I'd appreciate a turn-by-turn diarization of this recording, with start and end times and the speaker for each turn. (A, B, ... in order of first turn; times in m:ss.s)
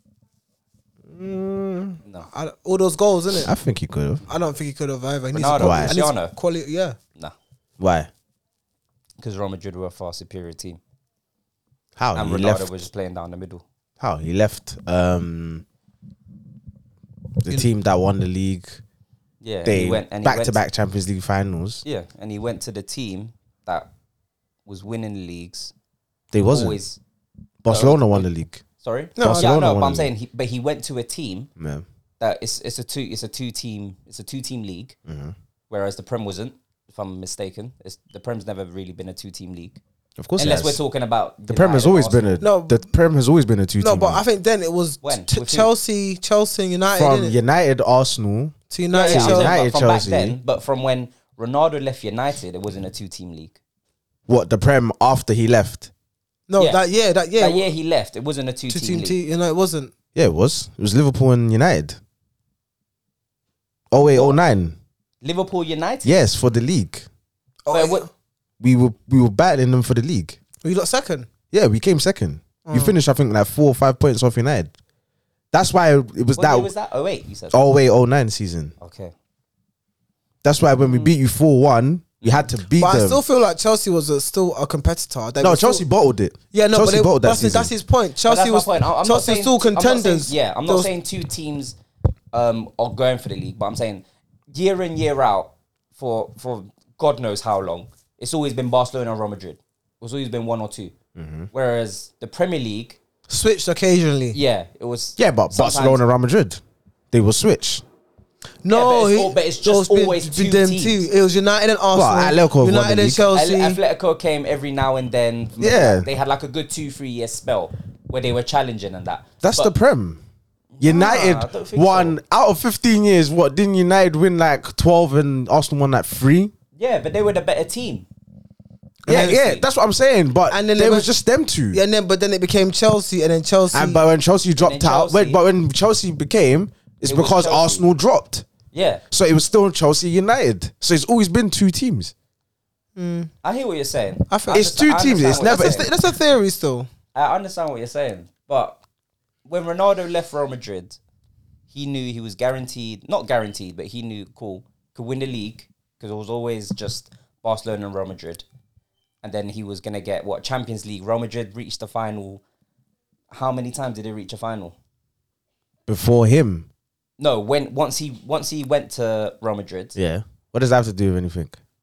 0:01.1-0:02.0 A
0:02.3-0:03.5 B
0:03.4-0:04.2 A
0:04.3-0:07.0 B
0:05.3-0:06.3 C
0:05.5-0:06.0 A
0:07.8-0:08.1 A
0:09.2-0:10.8 C
0:12.0-0:12.7 A
0:12.1-0:13.6 C
0:14.0-0:15.6 A
0:17.4-0:18.8 A
0:19.4-0:20.6 C
0:19.6-0:21.8 A
0:21.8-0:23.9 C
0:24.6-0:25.7 C
0:26.3-0:26.8 A
0:26.4-0:27.0 C
0:27.6-0:28.6 A
0:27.7-0:31.5 C
0:29.2-0:29.5 B
0:29.2-0:30.1 A
0:31.6-0:31.8 A
0:32.2-0:35.0 C
0:35.0-0:35.3 A
0:35.7-0:39.8 C
0:40.2-0:40.8 A
0:40.4-0:42.3 C
0:41.4-0:44.2 A
0:42.4-0:42.8 B
0:43.8-0:47.4 B
0:45.0-0:45.7 C
0:47.0-0:48.5 A
0:48.7-0:49.5 B
0:48.9-0:53.6 C
0:49.1-0:50.4 A
0:54.3-0:55.9 A
0:56.5-0:57.7 B
0:57.4-0:59.2 C
0:58.7-0:59.9 B
1:00.1-1:02.0 A
1:03.9-1:04.8 A
1:04.1-1:04.4 C
1:05.2-1:06.1 C
1:06.0-1:07.0 A
1:07.6-1:08.0 B
1:07.7-1:08.0 C
1:08.6-1:10.4 A
1:10.6-1:11.3 B
1:11.5-1:14.7 A
1:12.6-1:13.0 B
1:15.5-1:16.7 A
1:16.4-1:17.6 C
1:17.5-1:18.7 A
1:18.8-1:19.1 C
1:20.4-1:23.2 A
1:20.8-1:21.1 C
1:22.2-1:22.5 C
1:22.8-1:25.8 B
1:25.4-1:27.7 A
1:26.5-1:30.9 B
1:28.2-1:31.8 C
1:32.3-1:40.9 C
1:41.1-1:41.5 A
1:41.5-1:43.0 C
1:43.3-1:44.4 B
1:44.3-1:46.0 C
1:45.2-1:46.6 A
1:47.1-1:47.8 A
1:48.6-1:53.8 B
1:48.7-1:51.0 C
1:51.9-1:53.3 A
1:53.3-1:59.7 C
1:55.6-1:56.1 A
1:59.4-2:00.2 A
2:00.8-2:02.2 C
2:00.8-2:06.5 A
2:06.8-2:08.1 C
2:09.0-2:09.4 B
2:09.1-2:11.8 A
2:09.1-2:09.6 C
2:10.5-2:11.1 B
2:11.7-2:14.0 B
2:13.7-2:18.4 A
2:14.6-2:15.4 C
2:17.0-2:17.8 C
2:18.7-2:19.0 C
2:19.1-2:22.1 A
2:23.0-2:23.3 B
2:23.4-2:25.9 C
2:24.3-2:24.7 B
2:24.5-2:25.8 A
2:25.3-2:26.9 B
2:27.1-2:28.8 C
2:29.4-2:31.0 C
2:31.7-2:38.4 C
2:39.2-2:42.4 C
2:43.3-2:44.8 C
2:45.9-2:46.7 A
2:47.2-2:49.9 C
2:50.0-2:51.6 A